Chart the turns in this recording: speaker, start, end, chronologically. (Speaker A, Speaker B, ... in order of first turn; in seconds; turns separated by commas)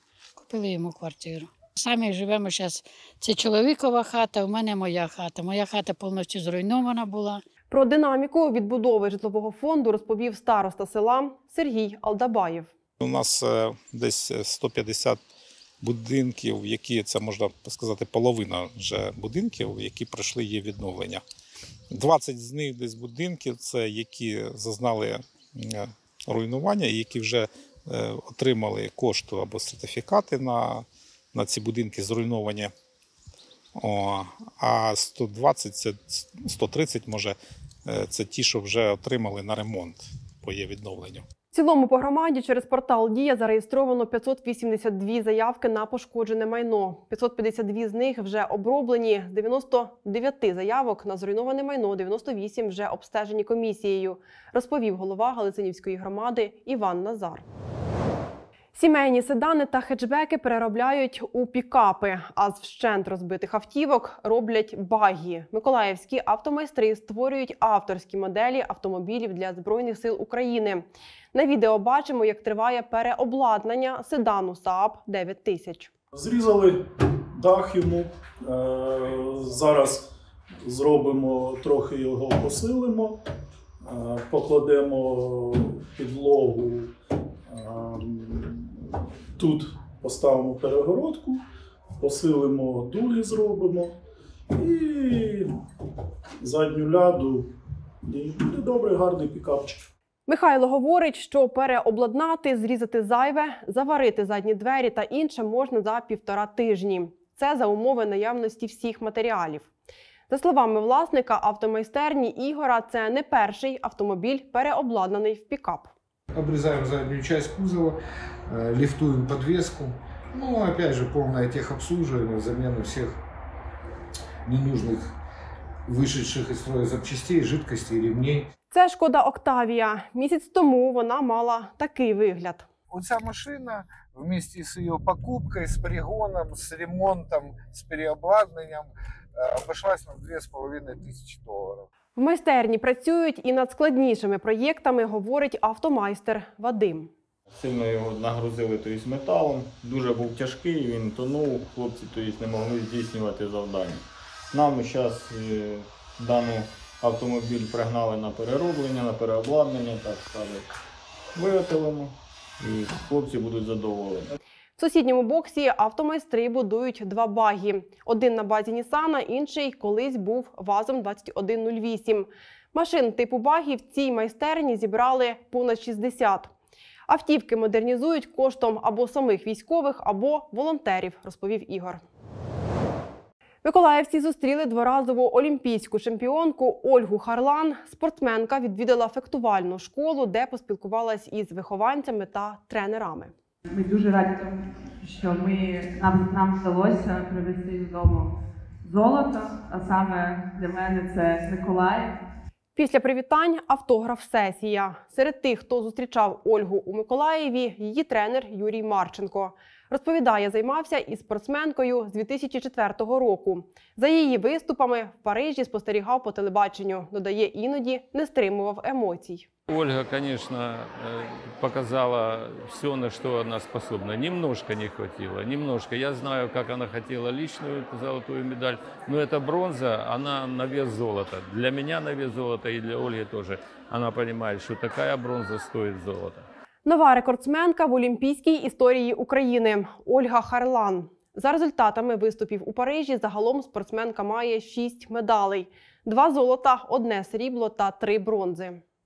Speaker A: 0.3-7.4, Speaker B: 7.7-12.7, Speaker C: 13.0-15.2, Speaker C: 15.8-21.2, Speaker C: 21.9-32.7, Speaker C: 33.8-41.2, Speaker B: 41.5-57.4, Speaker B: 58.7-75.9, Speaker D: 76.1-80.0, Speaker D: 80.6-83.2, Speaker D: 83.8-86.9, Speaker D: 87.5-91.4, Speaker D: 92.0-94.0, Speaker D: 94.5-95.5, Speaker D: 96.4-97.5, Speaker D: 98.0-99.9, Speaker B: 100.3-109.7, Speaker B: 110.3-115.9, Speaker E: 116.3-123.2, Speaker E: 124.5-125.1, Speaker E: 125.9-128.5, Speaker B: 128.7-132.7, Speaker E: 132.9-141.9, Speaker B: 142.1-147.1, Speaker F: 147.5-160.7, Speaker F: 161.3-164.3, Speaker B: 164.8-176.5, Speaker B: 177.1-182.0, Speaker B: 183.6-193.3, Speaker G: 193.7-198.3, Speaker G: 198.8-202.1, Speaker B: 202.8-219.5, Speaker H: 219.7-236.4, Speaker B: 236.8-248.8